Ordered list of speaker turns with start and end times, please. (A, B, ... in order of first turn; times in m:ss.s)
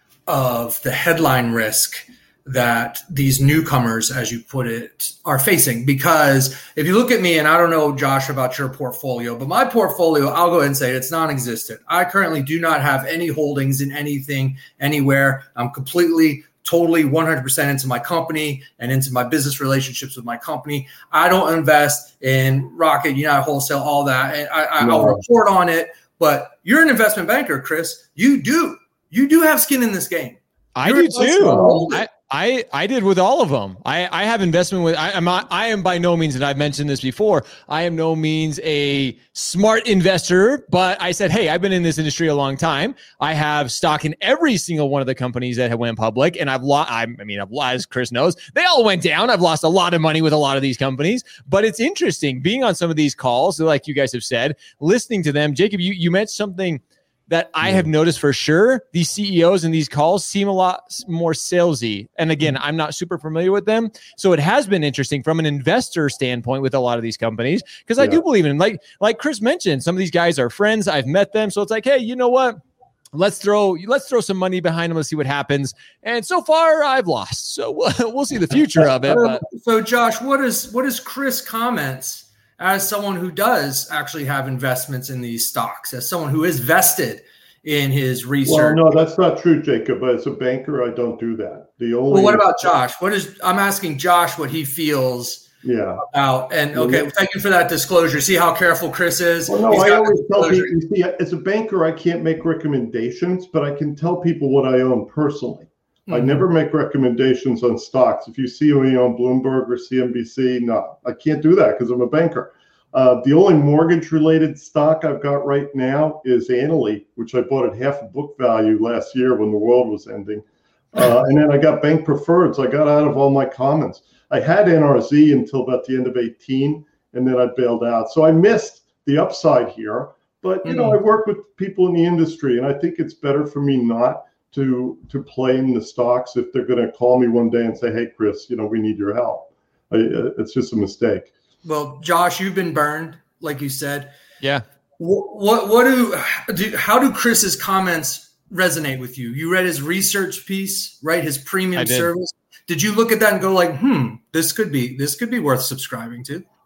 0:00.3-0:32.0 A
0:24.8-0:25.2 B
0:30.7-1:12.6 C
0:31.4-0:31.9 B
1:13.1-1:19.4 C
1:19.1-1:28.8 A
1:28.4-1:32.5 B
1:32.1-1:35.5 A
1:35.6-1:36.0 B
1:36.0-1:40.7 A
1:36.7-1:37.0 B
1:39.5-2:21.3 B
1:46.1-1:46.4 A
2:10.6-2:11.0 A
2:21.6-2:24.1 A
2:25.0-2:36.4 A
2:31.8-2:32.1 C